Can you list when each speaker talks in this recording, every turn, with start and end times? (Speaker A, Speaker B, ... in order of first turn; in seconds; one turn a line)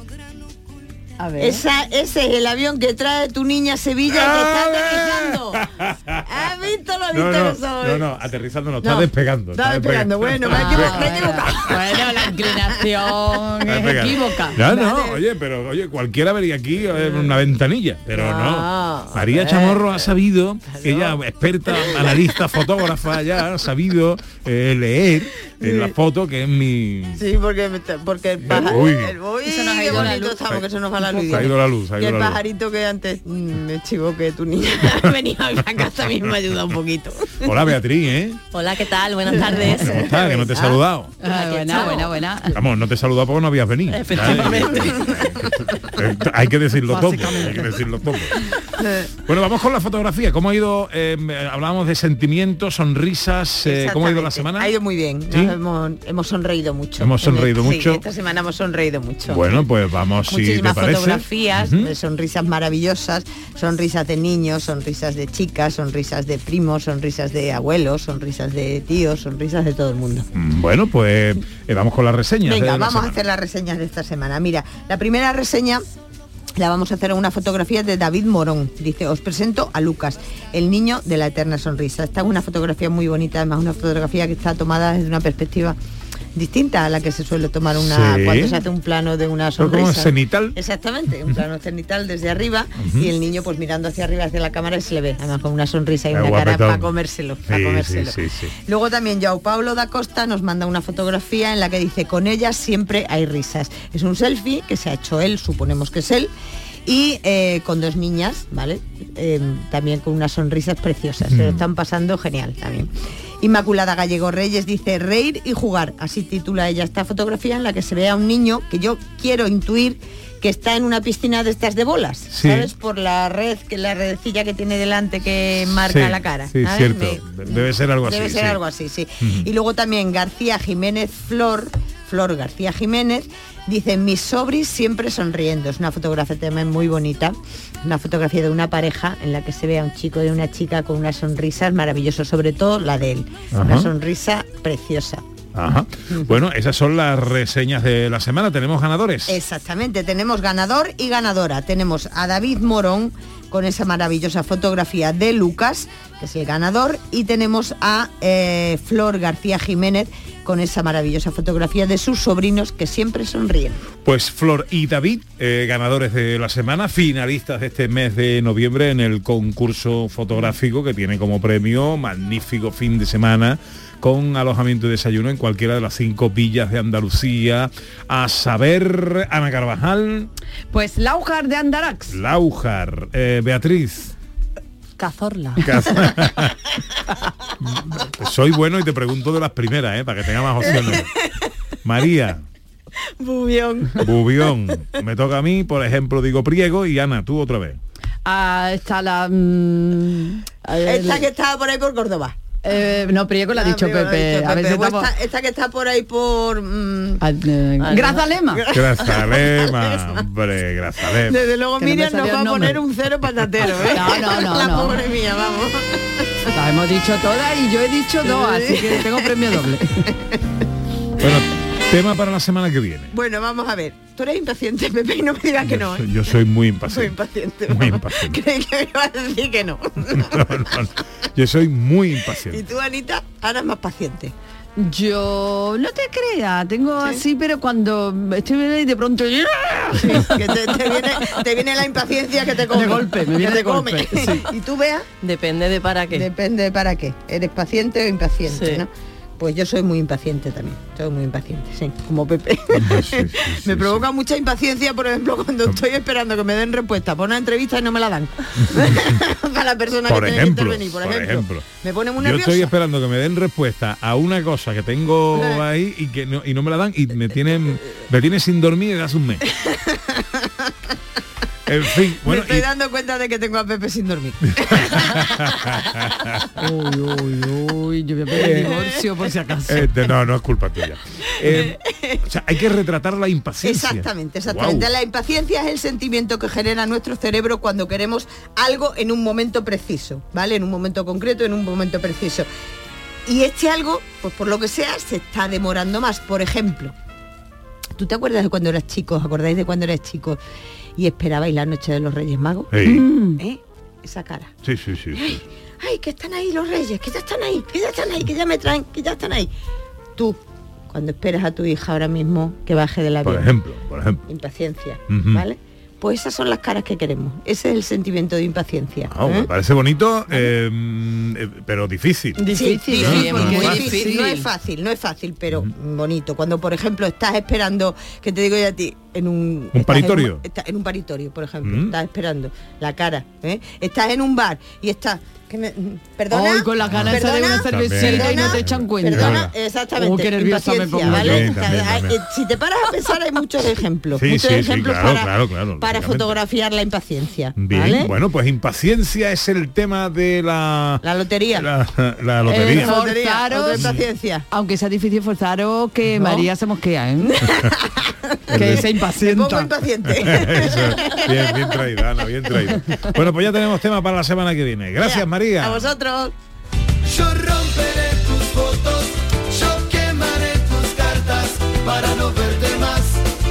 Speaker A: 1.2-1.6
Speaker B: 1.4-5.7
Speaker C: 4.1-6.2
Speaker B: 6.2-8.1
Speaker C: 7.1-11.7
Speaker B: 8.8-12.8
Speaker A: 10.5-14.6
Speaker C: 13.6-27.2
Speaker B: 14.5-15.2
Speaker B: 18.1-20.1
Speaker B: 20.7-21.1
Speaker B: 21.7-22.4
Speaker B: 25.6-25.9
Speaker B: 27.1-37.6
Speaker C: 28.4-29.1
Speaker A: 29.4-30.4
Speaker C: 31.2-32.4
Speaker C: 37.4-38.4
Speaker D: 38.5-40.3
Speaker B: 39.3-40.8
Speaker C: 39.6-41.1
Speaker A: 41.2-42.5
Speaker D: 41.3-42.1
Speaker B: 41.4-42.0
Speaker C: 42.5-48.5
Speaker D: 43.9-45.1
Speaker B: 44.3-45.3
Speaker A: 46.9-47.8
Speaker B: 48.8-49.0
Speaker C: 49.2-54.7
Speaker B: 53.6-59.6
Speaker C: 55.3-55.5
Speaker C: 57.0-58.0
Speaker C: 59.3-61.9
Speaker B: 60.2-70.3
Speaker C: 70.3-73.2
Speaker B: 72.4-75.8
Speaker B: 76.5-85.8
Speaker B: 86.3-106.3
Speaker C: 87.8-88.6
Speaker C: 89.6-90.5
Speaker C: 92.8-93.1
Speaker C: 96.1-96.9
Speaker C: 97.5-98.5
Speaker B: 106.8-145.2
Speaker C: 111.3-111.6
Speaker C: 122.3-122.7
Speaker C: 125.9-128.6
Speaker C: 129.2-129.5
Speaker C: 143.5-143.9
Speaker C: 145.5-149.4
Speaker B: 149.3-163.8
Speaker C: 164.0-180.3
Speaker A: 180.7-182.2
Speaker C: 182.1-184.1
Speaker D: 185.0-185.7
Speaker C: 185.6-186.7
Speaker C: 187.6-191.1
Speaker B: 190.6-191.1
Speaker C: 191.8-192.4
Speaker B: 193.2-194.1
Speaker C: 194.0-197.8
Speaker A: 198.2-201.2
Speaker B: 200.8-202.6
Speaker A: 202.6-205.1
Speaker B: 203.5-207.2
Speaker A: 207.2-208.7
Speaker D: 207.8-208.2
Speaker B: 208.5-210.2
Speaker C: 208.7-211.4
Speaker B: 211.0-216.5
Speaker A: 211.8-212.8
Speaker A: 213.7-215.0
Speaker A: 216.5-220.1
Speaker B: 218.2-220.4
Speaker C: 221.2-223.1
Speaker B: 223.1-226.1
Speaker C: 225.6-227.2
Speaker B: 226.9-230.7
Speaker C: 227.7-228.4
Speaker C: 230.1-232.6
Speaker B: 232.5-234.3
Speaker A: 234.8-240.9
Speaker B: 237.0-237.2
Speaker B: 239.9-245.1
Speaker A: 242.7-244.5
Speaker D: 245.2-246.3
Speaker B: 246.1-262.7
Speaker D: 248.5-248.8
Speaker C: 252.7-254.0
Speaker C: 260.1-261.6
Speaker C: 262.2-269.5
Speaker B: 265.3-265.6
Speaker B: 269.5-270.7
Speaker C: 271.7-272.7
Speaker B: 272.1-275.9
Speaker C: 274.6-276.4
Speaker A: 276.6-279.9
Speaker B: 278.3-278.9
Speaker C: 278.3-278.7
Speaker C: 279.7-284.9
Speaker B: 281.4-282.2
Speaker B: 283.6-292.5
Speaker B: 293.2-296.9
Speaker B: 297.9-300.4
Speaker B: 301.0-304.5
Speaker C: 302.7-303.0
Speaker A: 302.9-303.4
Speaker C: 304.6-305.4
Speaker B: 305.1-309.5
Speaker B: 310.1-313.5
Speaker C: 313.2-314.2
Speaker B: 314.3-319.5
Speaker C: 315.1-315.4
Speaker C: 319.1-323.9
Speaker A: 322.4-324.4
Speaker B: 322.5-348.1
Speaker D: 323.0-324.3
Speaker C: 329.7-330.4
Speaker C: 331.6-331.9
Speaker A: 336.3-341.6
Speaker C: 336.9-339.5
Speaker C: 341.0-342.2
Speaker C: 344.2-346.3
Speaker C: 347.6-351.0
Speaker B: 351.0-351.7
Speaker C: 351.6-353.0
Speaker A: 352.4-354.0
Speaker B: 352.5-354.4
Speaker C: 353.7-354.0
Speaker A: 354.5-357.5
Speaker B: 356.2-356.4
Speaker B: 357.2-361.8
Speaker C: 358.5-358.9
Speaker A: 358.5-359.7
Speaker C: 360.1-365.9
Speaker B: 365.0-366.3
Speaker E: 367.1-373.2